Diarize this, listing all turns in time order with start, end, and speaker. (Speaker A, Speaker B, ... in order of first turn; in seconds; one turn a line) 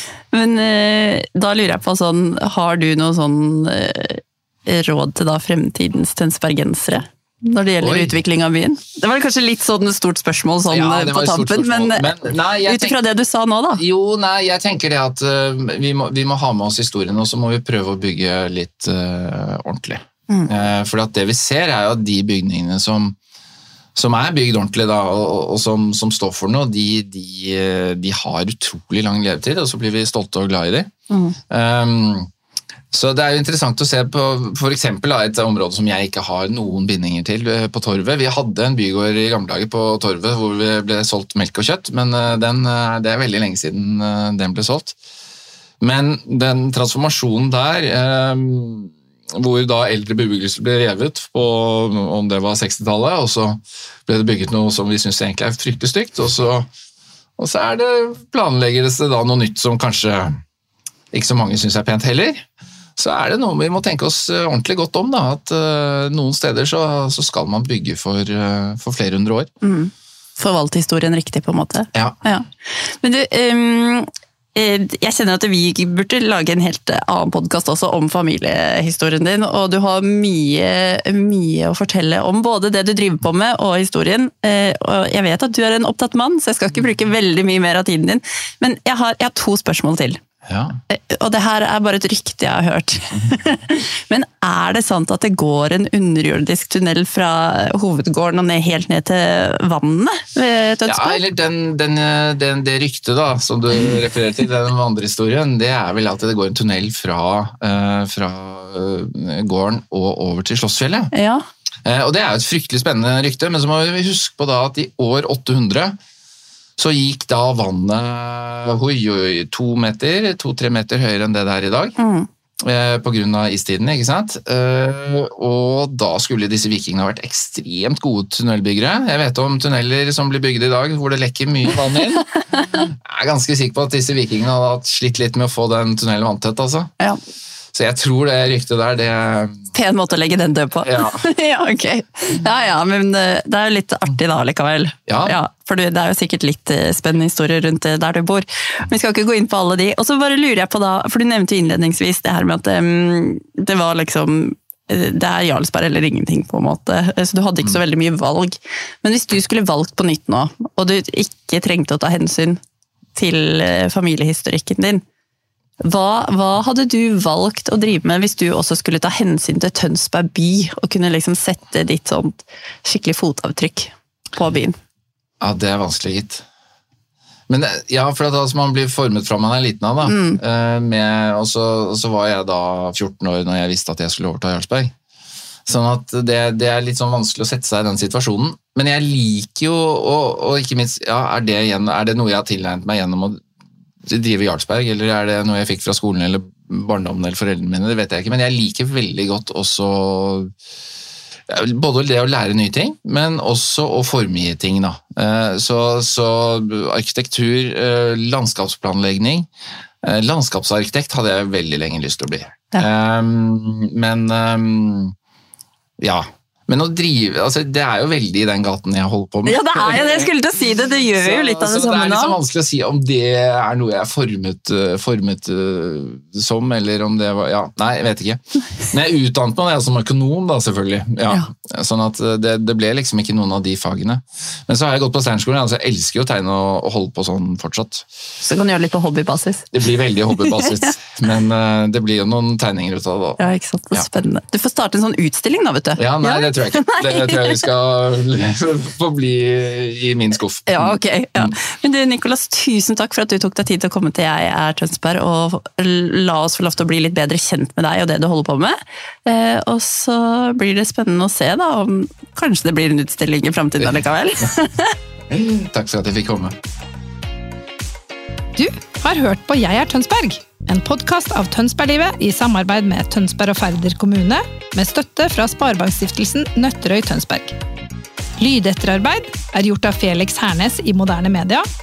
Speaker A: 0.3-13.8
Speaker B: 7.8-8.1
Speaker B: 10.7-13.0
Speaker B: 13.8-23.2
Speaker B: 23.9-30.9
Speaker A: 31.1-31.4
Speaker B: 31.5-32.3
Speaker B: 32.9-45.0
Speaker B: 45.8-56.7
Speaker B: 57.4-60.4
Speaker B: 61.1-62.4
Speaker B: 63.0-69.5
Speaker A: 69.6-90.2
Speaker B: 90.5-90.8
Speaker A: 90.9-101.2
Speaker B: 100.9-111.1
Speaker A: 111.1-111.4
Speaker B: 111.8-116.0
Speaker B: 116.8-122.0
Speaker A: 122.0-122.3
Speaker B: 122.6-136.9
Speaker B: 137.7-139.7
Speaker A: 139.7-162.6
Speaker B: 140.8-141.3
Speaker B: 145.1-145.4
Speaker A: 163.2-165.0
Speaker A: 165.8-174.8
Speaker B: 175.4-176.4
Speaker B: 177.5-184.9
Speaker A: 180.0-180.4
Speaker B: 185.7-193.4
Speaker B: 194.1-200.5
Speaker B: 201.5-209.5
Speaker B: 210.0-215.2
Speaker B: 216.0-220.3
Speaker A: 219.4-222.4
Speaker B: 221.2-238.1
Speaker A: 238.4-239.7
Speaker B: 239.7-243.4
Speaker A: 240.3-240.8
Speaker A: 243.4-247.6
Speaker B: 246.0-251.5
Speaker A: 250.7-265.0
Speaker B: 265.3-266.6
Speaker C: 268.6-277.5
Speaker C: 278.4-281.6